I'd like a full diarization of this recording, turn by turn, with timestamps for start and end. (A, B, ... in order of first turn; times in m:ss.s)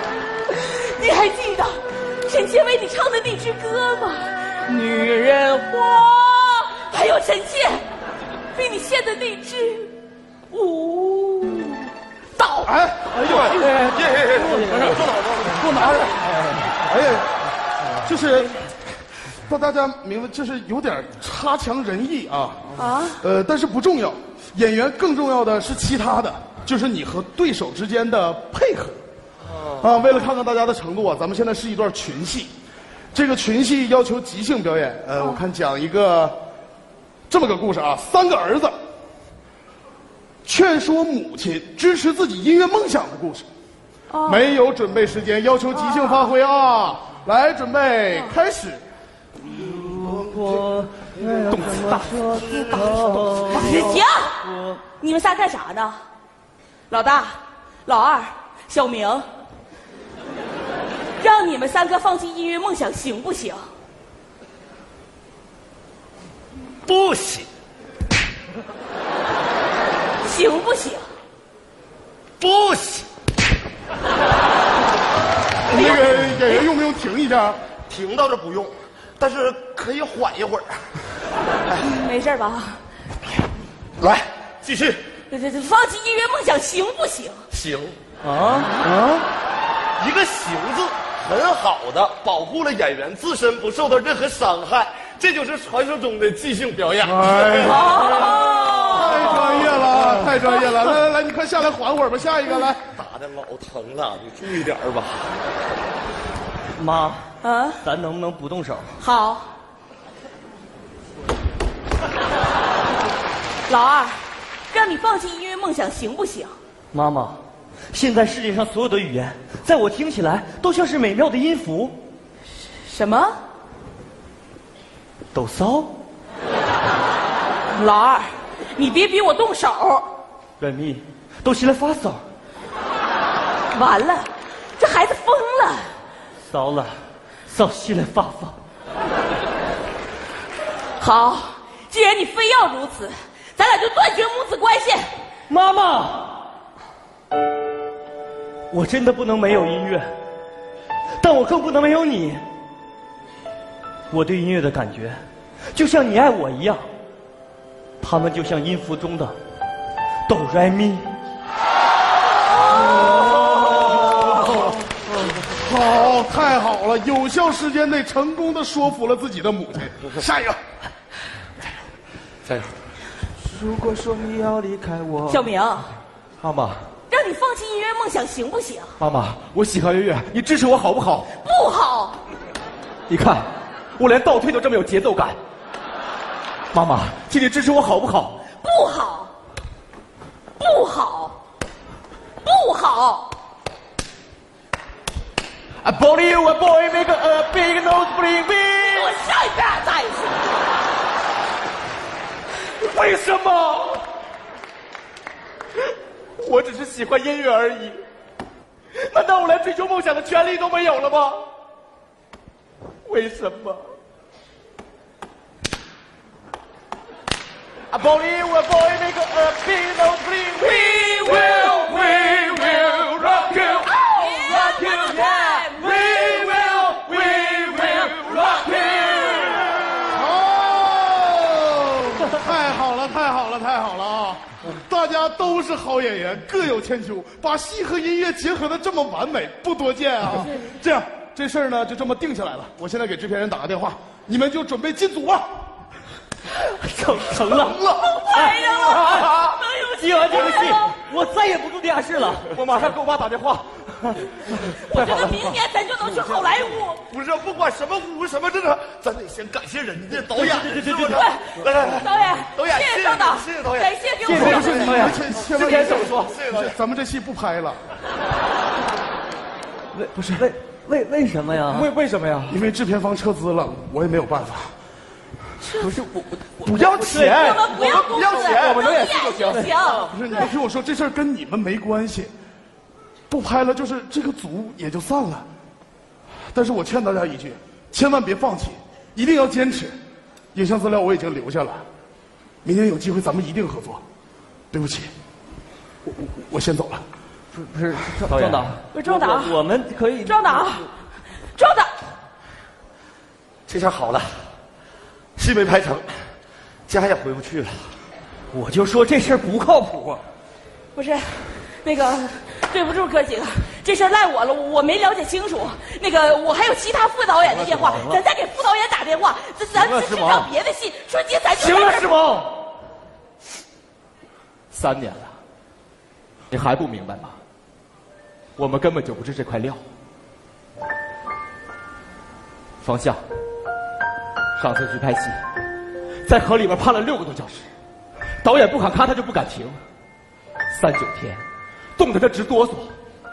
0:00.5-0:07.8 A
0:08.5-0:10.0 A
0:10.5-0:12.8 A
0:12.6-0:13.6 B
0:13.2-0:15.6 C
0:13.6-0:15.0 D
0:15.4-0:17.4 B
0:18.0-0:18.6 B
0:19.5-0:29.0 B
0:22.8-0:23.2 A
0:29.6-0:32.5 B
0:33.1-0:36.4 B
0:37.3-0:38.8 B
0:40.4-0:43.5 B
0:44.1-0:44.4 A
0:44.3-0:48.8 B
0:49.5-0:54.8 D
0:53.5-0:54.4 A
0:54.9-0:56.0 A
0:56.9-0:59.3 A
1:01.2-1:03.7 A
1:06.9-1:07.5 C
1:10.2-1:11.1 A
1:12.4-1:13.1 C
1:15.7-1:17.6 B
1:15.7-1:16.6 A
1:17.9-1:20.9 C
1:21.8-1:22.8 A
1:24.0-1:25.1 C
1:25.3-1:27.4 A
1:27.5-1:28.0 C
1:28.2-1:28.7 D
1:28.8-1:29.2 B
1:30.0-1:38.0 C
1:37.0-1:42.9 B
1:37.6-1:39.7 A
1:39.9-1:40.2 D
1:42.9-1:45.3 C
1:46.8-1:47.3 D
1:47.4-1:47.8 A
1:47.8-1:48.9 D
1:49.0-1:49.5 A
1:53.7-1:56.5 A
1:56.9-2:02.0 D
2:02.8-2:03.4 A
2:05.3-2:05.9 D
2:07.7-2:10.1 A
2:10.6-2:12.2 D
2:13.7-2:15.9 A
2:16.5-2:17.0 D
2:17.5-2:18.6 D
2:21.0-2:25.1 A
2:25.5-2:26.4 D
2:28.7-2:30.1 D
2:31.2-2:32.4 D
2:34.1-2:35.2 D
2:35.7-2:36.8 D
2:38.0-2:39.4 D
2:40.3-2:41.1 D
2:43.7-2:44.7 B
2:45.5-2:50.6 B
2:52.5-2:52.7 C
2:53.5-2:55.4 E
2:55.3-2:55.9 A
2:56.4-2:56.8 E
2:57.1-2:59.0 A
2:59.0-3:01.3 E
3:01.4-3:02.2 A
3:03.1-3:05.4 E
3:06.7-3:08.4 E
3:08.6-3:09.3 A
3:10.6-3:11.4 A
3:12.4-3:13.3 A
3:15.8-3:19.1 E
3:18.8-3:20.4 A
3:22.8-3:24.1 E
3:26.4-3:28.0 E
3:29.0-3:31.5 E
3:33.1-3:33.9 E
3:37.9-3:49.9 E
3:43.8-3:46.5 A
3:50.1-4:05.5 B
4:06.6-4:09.3 D
4:07.4-4:09.3 C
4:07.9-4:11.0 A
4:08.7-4:09.3 E
4:10.0-4:12.5 D
4:12.4-4:15.6 E
4:14.5-4:17.0 A
4:17.1-4:24.1 C
4:20.3-4:21.2 D
4:21.1-4:25.0 A
4:24.2-4:25.2 D
4:24.3-4:27.8 B
4:24.4-4:26.4 E
4:24.8-4:26.8 C
4:30.0-4:31.9 D
4:30.2-4:30.5 E
4:31.7-4:32.6 E
4:32.5-4:34.7 B
4:35.7-4:35.9 A
4:35.8-4:36.3 D
4:36.6-4:39.7 E
4:37.0-4:37.6 D
4:37.3-4:40.5 A
4:37.6-4:40.2 C
4:40.1-4:42.3 B
4:43.3-4:45.5 B
4:46.5-4:50.0 B
4:50.5-4:51.8 B
4:52.6-4:54.0 B
4:54.7-4:55.1 B
4:56.0-4:57.0 B
4:57.5-5:00.7 D
4:58.3-4:58.8 E
4:58.9-4:59.6 A
5:00.2-5:00.9 A
5:01.6-5:01.9 A
5:03.7-5:04.5 C
5:05.4-5:06.2 C
5:06.9-5:08.0 C
5:08.5-5:10.2 D
5:11.0-5:22.1 A
5:17.5-5:18.2 D
5:19.7-5:20.5 E
5:21.6-5:22.5 E
5:24.7-5:25.3 E
5:26.5-5:27.4 E
5:28.6-5:29.8 E
5:32.8-5:33.2 E
5:34.6-5:35.4 E
5:36.3-5:37.7 E
5:38.4-5:39.8 E
5:40.7-5:41.4 E
5:42.0-5:42.9 E